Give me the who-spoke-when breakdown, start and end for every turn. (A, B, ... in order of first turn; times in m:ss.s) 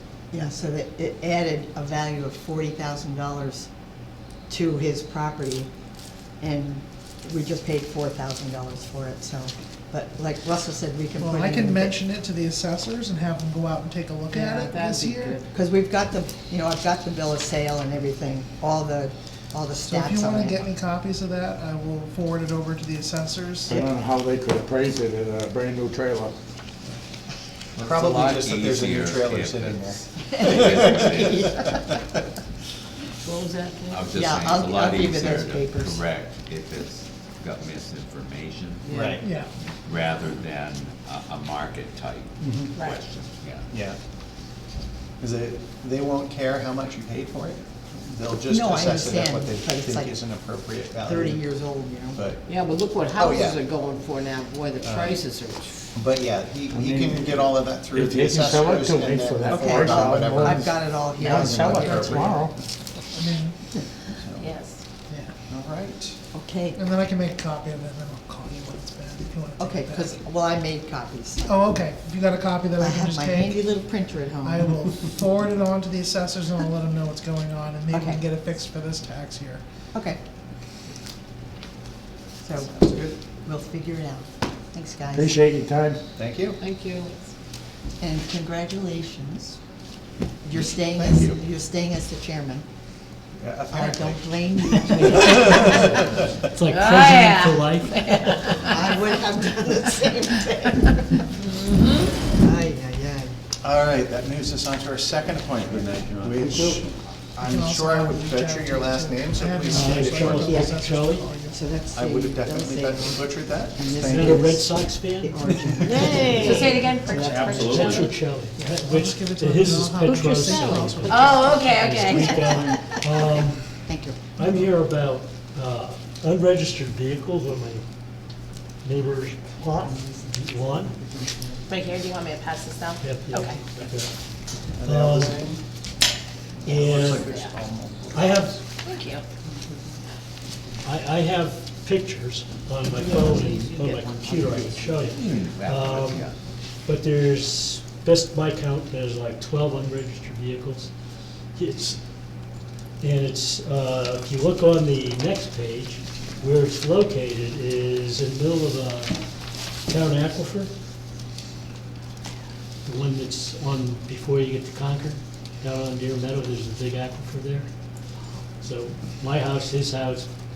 0:00.3-0:03.7 A
0:04.5-0:05.7 A
0:06.4-0:12.0 A
0:11.2-0:15.4 B
0:14.4-0:15.5 C
0:15.5-0:20.6 A
0:19.9-0:23.8 B
0:23.7-0:26.4 D
0:27.7-0:31.5 E
0:27.8-0:31.1 F
0:30.3-0:31.8 A
0:33.2-0:34.0 C
0:33.9-0:43.7 E
0:34.1-0:36.0 A
0:38.8-0:39.1 C
0:38.9-0:39.2 F
0:39.2-0:39.5 B
0:42.4-0:42.8 F
0:43.7-0:44.0 F
0:45.2-0:51.5 F
0:48.5-0:50.2 A
0:51.0-0:52.2 A
0:52.1-0:53.6 F
0:52.4-0:55.9 C
0:54.8-0:55.2 F
0:55.9-1:02.7 F
0:56.7-1:02.6 D
0:59.4-1:02.3 A
1:01.8-1:02.4 B
1:03.1-1:03.6 B
1:04.1-1:04.6 F
1:04.4-1:04.8 G
1:05.5-1:06.2 F
1:06.3-1:06.8 A
1:06.8-1:10.2 B
1:09.6-1:11.5 A
1:11.4-1:13.7 B
1:12.8-1:15.0 A
1:14.4-1:19.6 B
1:17.9-1:18.2 A
1:19.9-1:20.2 A
1:22.4-1:25.3 A
1:22.6-1:23.1 F
1:25.1-1:26.0 D
1:26.2-1:26.6 F
1:26.6-1:27.1 C
1:28.0-1:29.6 A
1:30.4-1:32.7 A
1:30.5-1:31.4 F
1:33.4-1:36.0 F
1:33.7-1:36.2 A
1:35.0-1:35.3 H
1:36.5-1:38.6 H
1:36.8-1:38.6 G
1:38.6-1:41.3 A
1:41.8-1:42.1 G
1:42.3-1:43.4 A
1:43.6-1:50.7 F
1:46.4-1:46.8 D
1:47.4-1:51.7 B
1:49.7-1:51.2 H
1:51.5-1:56.8 A
1:51.9-1:54.5 F
1:54.1-1:55.4 H
1:55.5-1:56.4 F
1:55.8-1:56.8 C
1:56.3-1:58.2 G
1:57.2-1:58.1 E
1:57.6-2:03.8 H
1:58.4-2:01.6 B
2:00.1-2:00.7 C
2:01.0-2:03.0 G
2:02.1-2:02.9 A
2:03.7-2:04.2 A
2:04.4-2:07.8 H
2:04.4-2:04.7 B
2:08.8-2:11.0 H
2:09.9-2:11.6 A
2:11.7-2:13.6 G
2:13.0-2:14.2 H
2:14.8-2:15.6 F
2:14.8-2:15.4 H
2:16.6-2:18.6 F
2:16.6-2:17.3 H
2:16.8-2:17.5 G
2:18.1-2:18.6 H
2:18.8-2:19.2 G
2:20.8-2:26.2 H
2:22.9-2:24.8 C
2:24.5-2:26.3 E
2:26.8-2:30.9 H
2:31.5-2:32.0 H
2:33.0-2:39.2 H
2:39.8-2:40.7 H
2:42.8-2:47.7 H
2:48.6-2:50.3 H